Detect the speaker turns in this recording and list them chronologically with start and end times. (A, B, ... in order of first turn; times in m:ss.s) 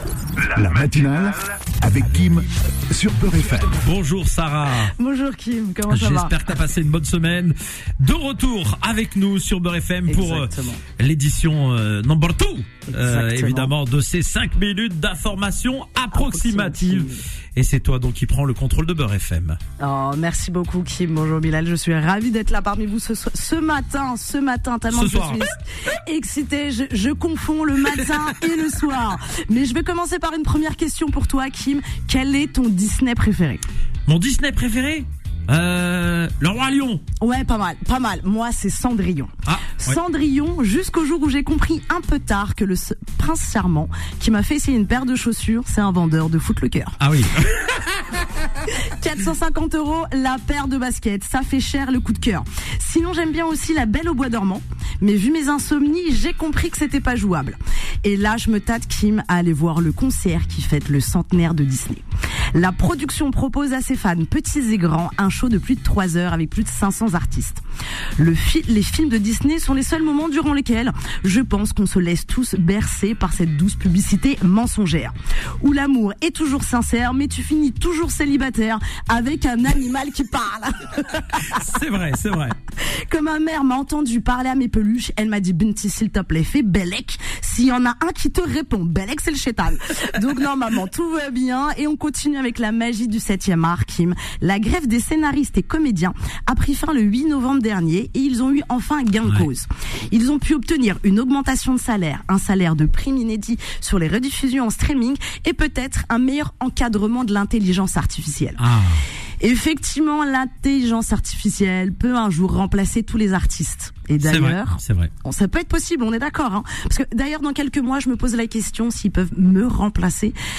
0:00.4-0:03.7 A
0:03.8-0:04.9 B
0:04.8-0:06.3 C
0:05.9-0:19.6 B
0:10.0-0:10.8 C
0:12.9-0:13.7 C
0:16.1-0:17.2 C
0:19.8-0:33.6 C
0:24.9-0:25.4 B
0:34.1-0:37.0 B
0:37.2-0:47.0 C
0:39.4-0:40.0 B
0:47.0-0:47.8 B
0:48.6-1:07.6 C
1:08.2-1:21.5 C
1:21.4-1:22.6 B
1:22.8-1:48.6 C
1:48.6-1:49.0 B
1:49.4-2:00.3 C
1:54.2-1:55.1 B